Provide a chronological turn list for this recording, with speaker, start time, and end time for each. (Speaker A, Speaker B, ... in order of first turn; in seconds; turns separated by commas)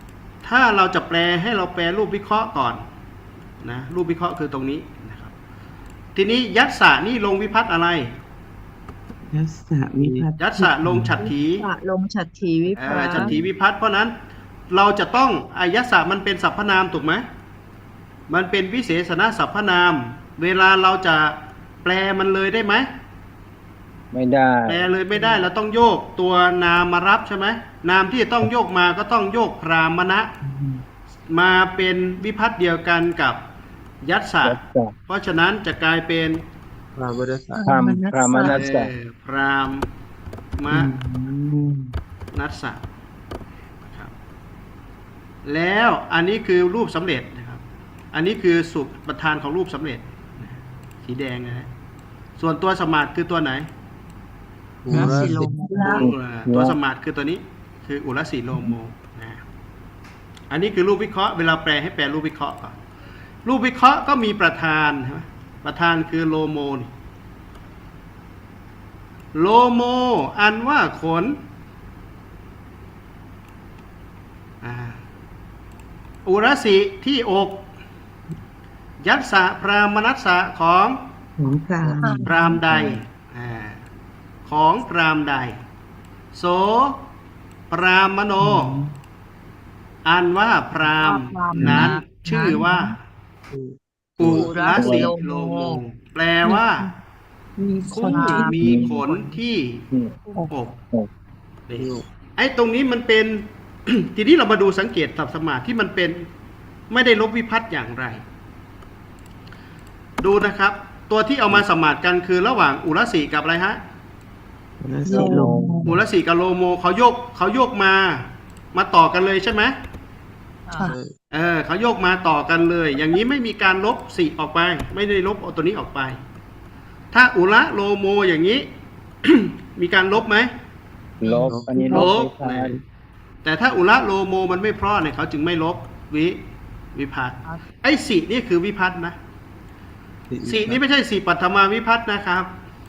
Speaker A: 0.4-2.8, Speaker A: 3.6-5.3, Speaker A: 6.1-8.1, Speaker B: 9.3-11.3, Speaker A: 10.3-11.6, Speaker C: 11.2-13.4, Speaker A: 12.8-14.1, Speaker A: 14.7-17.2, Speaker A: 18.3-22.9, Speaker D: 24.1-24.9, Speaker A: 24.7-30.3, Speaker B: 30.4-30.8, Speaker A: 31.3-33.4, Speaker A: 34.0-36.4, Speaker D: 34.4-34.9, Speaker E: 36.9-37.6, Speaker F: 37.5-38.6, Speaker D: 37.6-38.9, Speaker A: 38.5-39.9, Speaker A: 40.6-41.0, Speaker B: 40.7-41.9, Speaker A: 42.3-42.8, Speaker A: 43.8-44.1, Speaker A: 45.4-51.7, Speaker A: 52.4-53.7, Speaker E: 54.8-55.5, Speaker C: 54.9-56.0, Speaker F: 55.6-56.1, Speaker D: 55.9-56.8, Speaker A: 55.9-59.4, Speaker A: 60.5-62.8, Speaker A: 63.4-66.9, Speaker A: 69.3-71.4, Speaker A: 74.6-75.0, Speaker A: 76.2-77.7, Speaker A: 79.0-81.0, Speaker B: 81.4-82.8, Speaker E: 81.8-82.8, Speaker F: 82.0-82.3, Speaker A: 82.2-83.8, Speaker A: 84.4-85.5, Speaker A: 86.3-87.1, Speaker A: 87.7-88.8, Speaker B: 88.4-88.9, Speaker A: 90.0-93.0, Speaker C: 91.0-92.9, Speaker E: 93.5-94.8, Speaker A: 94.2-96.9, Speaker D: 94.2-95.1, Speaker C: 94.2-95.8, Speaker F: 97.6-98.7, Speaker A: 97.9-99.9, Speaker C: 97.9-99.4, Speaker D: 98.6-98.9, Speaker C: 100.1-100.5, Speaker A: 100.5-100.8, Speaker A: 101.7-106.3, Speaker E: 101.7-102.0, Speaker A: 106.9-108.2, Speaker A: 110.2-113.8, Speaker B: 114.8-116.0, Speaker F: 115.0-115.9, Speaker D: 115.1-115.8, Speaker A: 115.8-119.7, Speaker C: 120.7-120.9, Speaker E: 120.9-121.1, Speaker A: 121.3-126.2, Speaker A: 127.1-128.7, Speaker A: 129.2-130.5, Speaker D: 131.2-132.8, Speaker C: 131.2-132.0, Speaker E: 131.5-131.8, Speaker A: 131.9-132.8, Speaker A: 133.4-136.4, Speaker A: 136.9-139.2, Speaker E: 140.3-140.8, Speaker A: 140.4-142.5